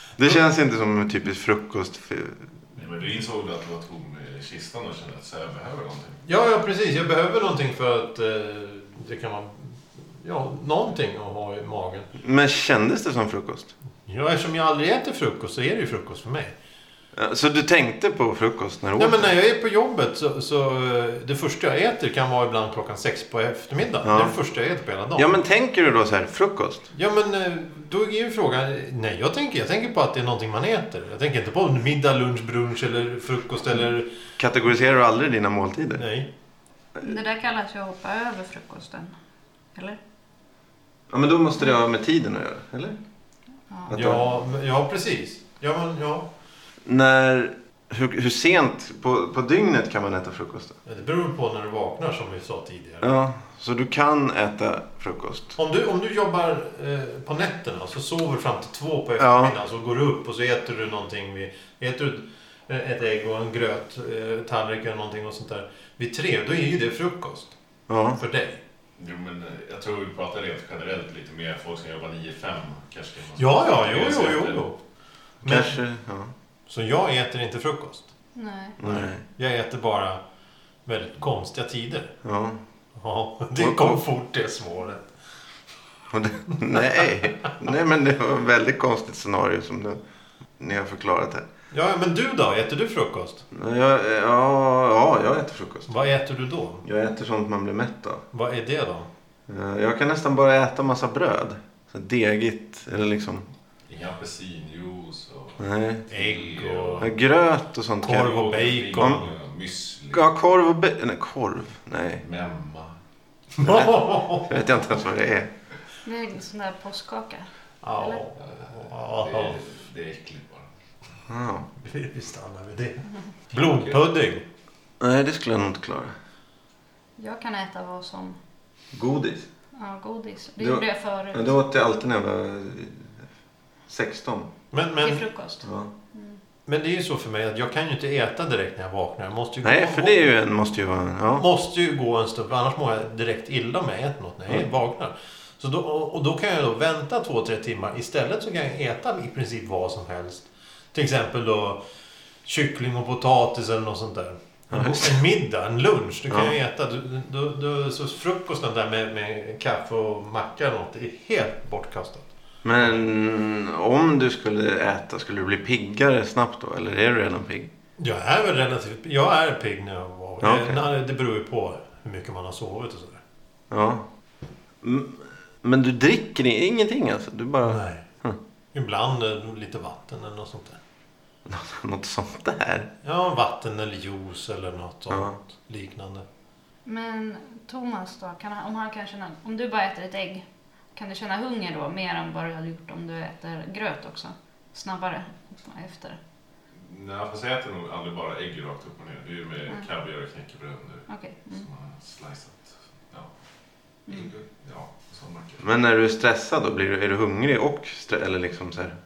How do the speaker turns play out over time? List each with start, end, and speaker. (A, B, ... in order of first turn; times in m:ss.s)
0:00.2-0:02.5 A
0:02.8-0:06.2 B
0:06.2-0:12.1 C
0:12.2-0:13.7 A
0:14.0-0:16.5 C
0:17.1-0:19.3 A
0:19.0-0:25.4 C
0:24.0-0:24.4 A
0:25.1-0:26.9 A
0:26.9-0:34.1 C
0:34.4-0:36.0 A
0:36.0-0:36.3 C
0:37.0-0:39.1 D
0:41.1-0:43.0 A
0:43.7-0:44.0 D
0:43.9-0:44.2 A
0:43.9-0:46.3 C
0:46.8-0:50.7 A
0:50.8-0:53.1 C
0:53.0-0:55.6 A
0:55.6-1:07.5 C
0:59.2-0:59.5 A
1:07.9-1:08.2 A
1:08.2-1:08.6 C
1:09.0-1:14.6 B
1:13.4-1:14.8 C
1:15.4-1:15.8 C
1:15.4-1:16.3 A
1:16.7-1:18.1 C
1:18.3-1:18.8 D
1:18.8-1:19.2 A
1:18.8-1:20.2 C
1:20.8-1:22.1 C
1:22.2-1:22.6 A
1:23.0-1:25.1 C
1:23.6-1:24.0 A
1:26.1-1:30.0 A
1:30.6-1:31.4 A
1:31.7-1:33.4 C
1:33.5-1:35.9 A
1:35.9-1:36.8 C
1:36.8-1:38.2 A
1:38.3-1:39.1 C
1:39.5-1:43.5 A
1:43.9-1:47.1 B
1:45.6-1:46.0 A
1:46.1-1:47.1 C
1:47.0-1:48.4 A
1:48.0-1:49.3 C
1:48.2-1:50.3 B
1:48.9-1:49.2 A
1:50.1-1:52.2 A
1:52.2-1:52.9 B
1:53.6-1:54.5 C
1:53.6-1:55.5 A
1:56.0-1:58.2 D
1:57.8-1:59.6 C
1:58.4-2:00.6 B
2:01.3-2:01.7 A
2:01.8-2:04.4 C
2:03.6-2:04.0 B
2:05.0-2:06.1 A
2:07.2-2:08.4 D
2:08.9-2:09.5 A
2:09.8-2:11.5 D
2:10.6-2:13.2 A
2:13.9-2:14.5 A
2:14.7-2:15.2 C
2:15.0-2:16.4 D
2:15.6-2:15.9 A
2:16.7-2:20.3 C
2:19.6-2:21.4 A
2:21.3-2:31.8 C
2:32.4-2:43.0 C
2:34.7-2:35.2 A
2:36.3-2:36.5 A
2:42.6-2:47.7 A
2:48.0-2:53.2 C
2:50.4-2:50.8 A
2:53.7-2:54.0 A
2:54.8-2:58.4 A
2:57.6-2:58.0 C
2:58.7-3:00.8 C
3:01.4-3:02.9 A
3:03.0-3:06.2 C
3:05.1-3:05.3 A
3:06.8-3:16.2 D
3:16.8-3:23.3 B
3:21.1-3:21.7 D
3:24.1-3:25.6 B
3:25.6-3:29.0 A